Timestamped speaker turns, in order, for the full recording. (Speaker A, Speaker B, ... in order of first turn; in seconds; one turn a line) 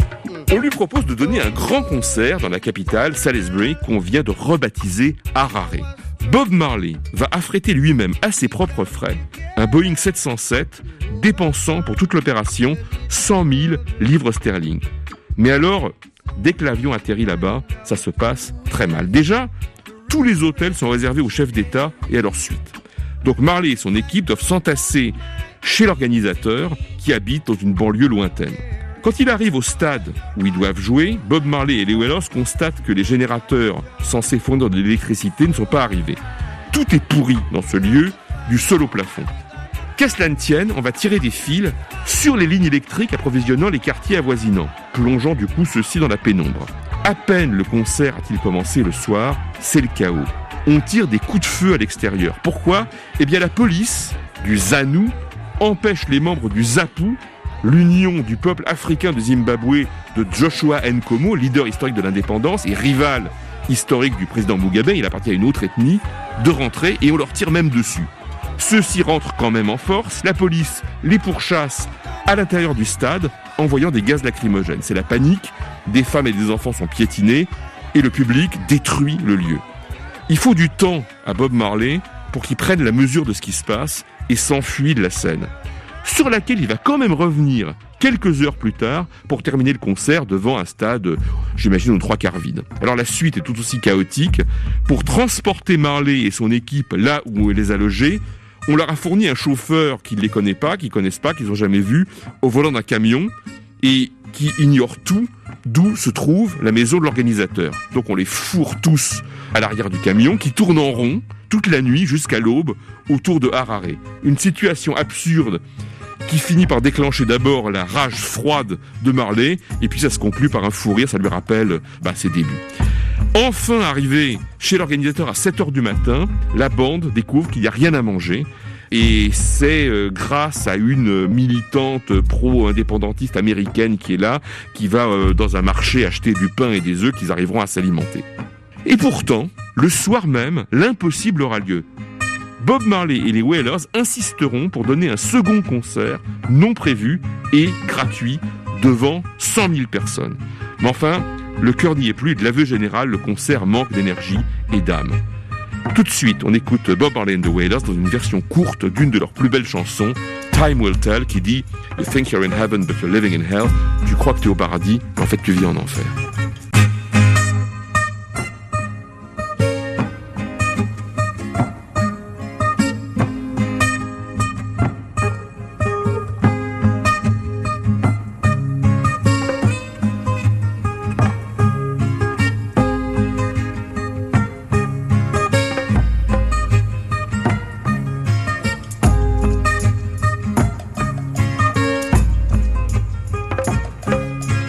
Speaker A: 0.5-14.8
Speaker A: 15.3-19.5
Speaker A: 20.1-39.3
Speaker A: 40.0-79.6
Speaker A: 80.3-85.5
Speaker A: 86.0-115.6
Speaker A: 116.2-122.6
Speaker A: 123.3-138.2
Speaker A: 138.8-141.9
Speaker A: 142.6-155.2
Speaker A: 155.9-166.2